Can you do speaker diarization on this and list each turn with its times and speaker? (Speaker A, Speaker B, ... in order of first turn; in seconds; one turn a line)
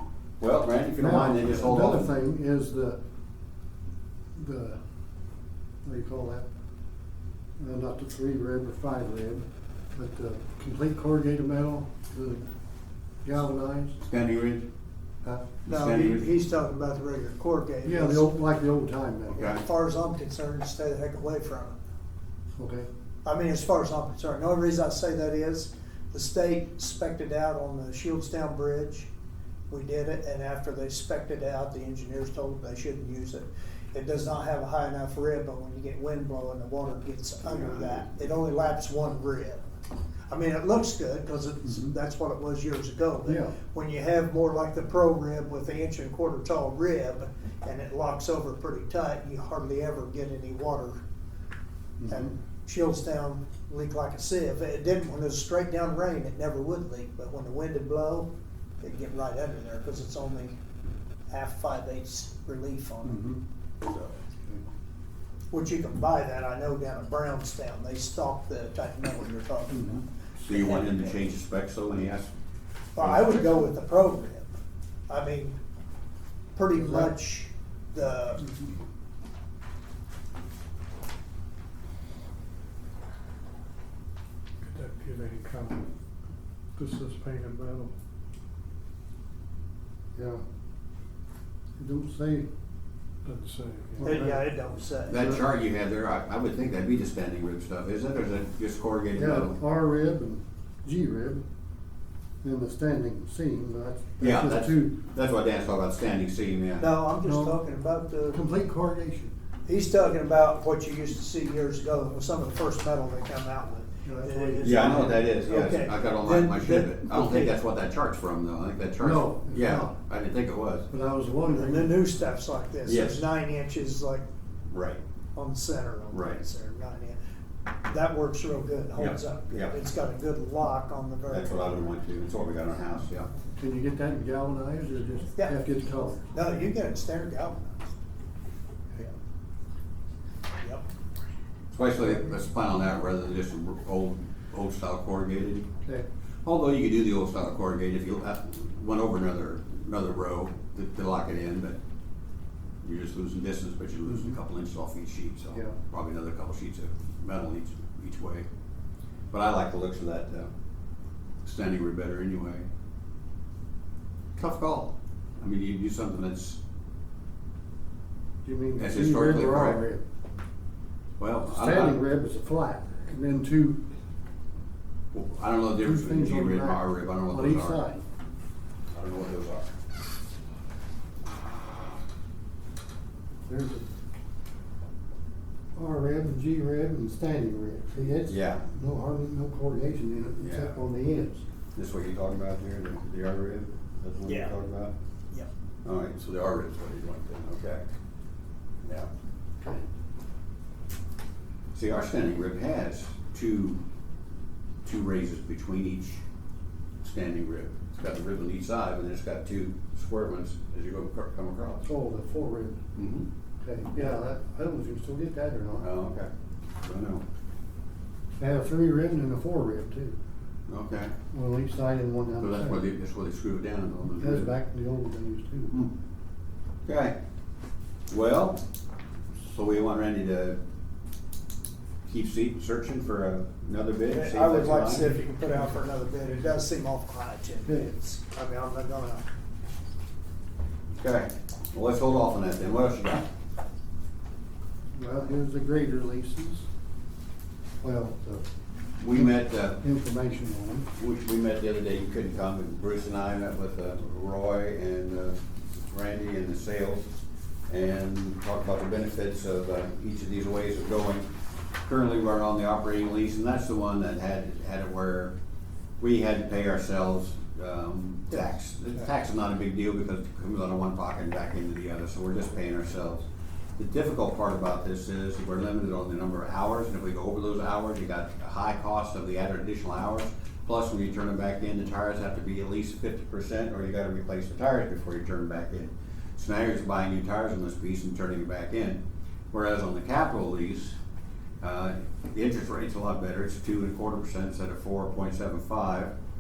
Speaker A: 0.4-2.1
Speaker B: 1.0-3.0
Speaker B: 4.4-4.8
Speaker B: 5.8-6.5
Speaker B: 7.6-12.5
Speaker B: 13.2-14.0
Speaker A: 14.0-14.7
Speaker A: 15.7-16.3
Speaker C: 15.7-18.3
Speaker B: 17.8-19.5
Speaker A: 19.3-19.6
Speaker C: 19.4-21.8
Speaker B: 22.6-22.9
Speaker C: 23.2-29.1
Speaker C: 29.7-39.6
Speaker A: 37.5-38.0
Speaker C: 40.3-51.0
Speaker B: 41.6-41.9
Speaker B: 43.3-43.5
Speaker B: 52.0-52.3
Speaker C: 52.1-58.3
Speaker C: 58.8-60.6
Speaker C: 61.3-63.2
Speaker B: 63.0-63.4
Speaker C: 63.8-64.1
Speaker C: 65.5-71.2
Speaker B: 69.7-70.0
Speaker A: 70.4-72.3
Speaker C: 73.0-74.5
Speaker A: 73.0-73.5
Speaker C: 75.1-75.6
Speaker C: 76.5-78.4
Speaker B: 76.8-77.1
Speaker B: 78.4-78.7
Speaker D: 84.6-85.9
Speaker D: 86.8-87.9
Speaker B: 90.2-90.4
Speaker B: 91.8-92.5
Speaker D: 93.2-94.2
Speaker B: 94.0-94.4
Speaker C: 94.0-95.4
Speaker A: 95.1-99.6
Speaker B: 99.1-101.4
Speaker B: 102.4-104.9
Speaker A: 104.2-106.9
Speaker C: 106.8-108.4
Speaker B: 107.2-107.6
Speaker B: 108.3-109.3
Speaker C: 109.7-117.5
Speaker B: 114.0-115.2
Speaker A: 114.6-120.9
Speaker B: 119.0-120.0
Speaker B: 120.9-122.0
Speaker C: 121.5-124.2
Speaker A: 122.9-123.2
Speaker A: 124.7-125.0
Speaker C: 125.4-127.2
Speaker A: 126.1-126.4
Speaker C: 127.9-131.9
Speaker A: 129.0-129.8
Speaker A: 131.3-133.3
Speaker B: 133.6-136.3
Speaker C: 136.3-137.9
Speaker C: 140.6-140.8
Speaker A: 141.7-145.7
Speaker A: 146.4-151.8
Speaker A: 152.8-158.5
Speaker B: 154.1-154.4
Speaker A: 159.3-160.5
Speaker A: 161.4-162.7
Speaker A: 164.4-166.6
Speaker B: 168.4-170.0
Speaker A: 168.8-169.8
Speaker A: 171.2-172.0
Speaker B: 171.5-173.8
Speaker A: 175.1-177.8
Speaker B: 175.8-178.0
Speaker A: 178.9-179.7
Speaker B: 183.5-183.9
Speaker B: 185.8-191.4
Speaker A: 188.1-188.7
Speaker A: 190.4-190.8
Speaker A: 191.8-194.9
Speaker C: 194.3-194.5
Speaker A: 195.8-197.8
Speaker A: 198.8-199.1
Speaker A: 201.7-203.8
Speaker A: 204.8-206.2
Speaker A: 207.0-211.8
Speaker B: 211.8-212.8
Speaker A: 213.0-213.3
Speaker B: 213.6-215.9
Speaker A: 215.8-216.3
Speaker A: 216.8-217.2
Speaker B: 218.4-220.2
Speaker A: 220.7-221.2
Speaker B: 221.3-222.8
Speaker A: 222.4-224.5
Speaker B: 224.2-225.8
Speaker A: 226.9-227.2
Speaker A: 228.1-228.6
Speaker A: 229.4-230.6
Speaker A: 232.1-235.2
Speaker C: 234.1-239.3
Speaker A: 240.9-243.3
Speaker B: 244.9-246.7
Speaker B: 247.8-248.4
Speaker A: 249.0-249.8
Speaker B: 249.1-250.9
Speaker A: 251.0-257.1
Speaker A: 257.7-261.3
Speaker A: 261.8-265.3
Speaker A: 266.0-273.3
Speaker A: 273.8-289.0
Speaker A: 289.5-291.0
Speaker A: 291.6-296.1